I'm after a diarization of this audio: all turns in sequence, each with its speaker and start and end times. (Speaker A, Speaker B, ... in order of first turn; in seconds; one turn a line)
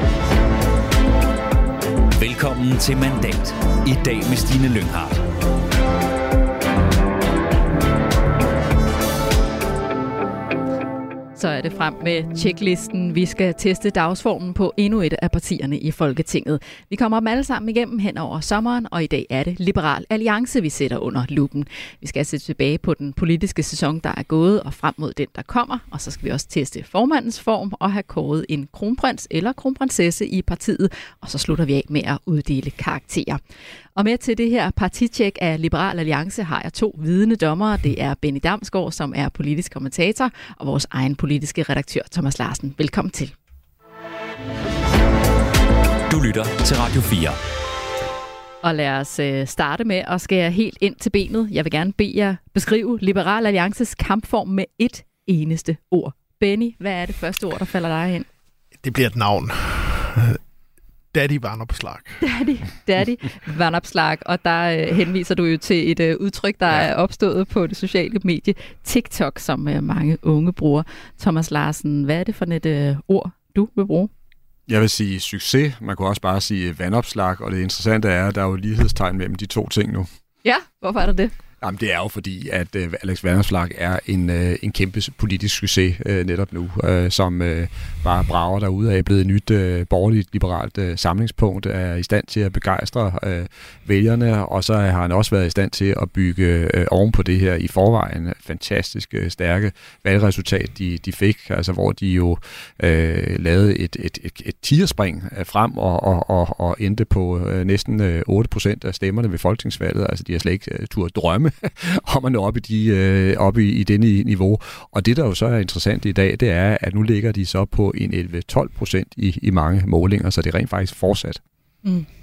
Speaker A: 2.1-5.2
Speaker B: 11.4-33.4
Speaker B: 34.0-43.3
Speaker A: 46.1-47.4
Speaker B: 48.6-58.3
Speaker C: 58.8-60.4
Speaker C: 61.1-62.2
Speaker B: 62.2-74.1
Speaker D: 74.7-80.1
Speaker B: 80.4-81.3
Speaker D: 81.6-121.4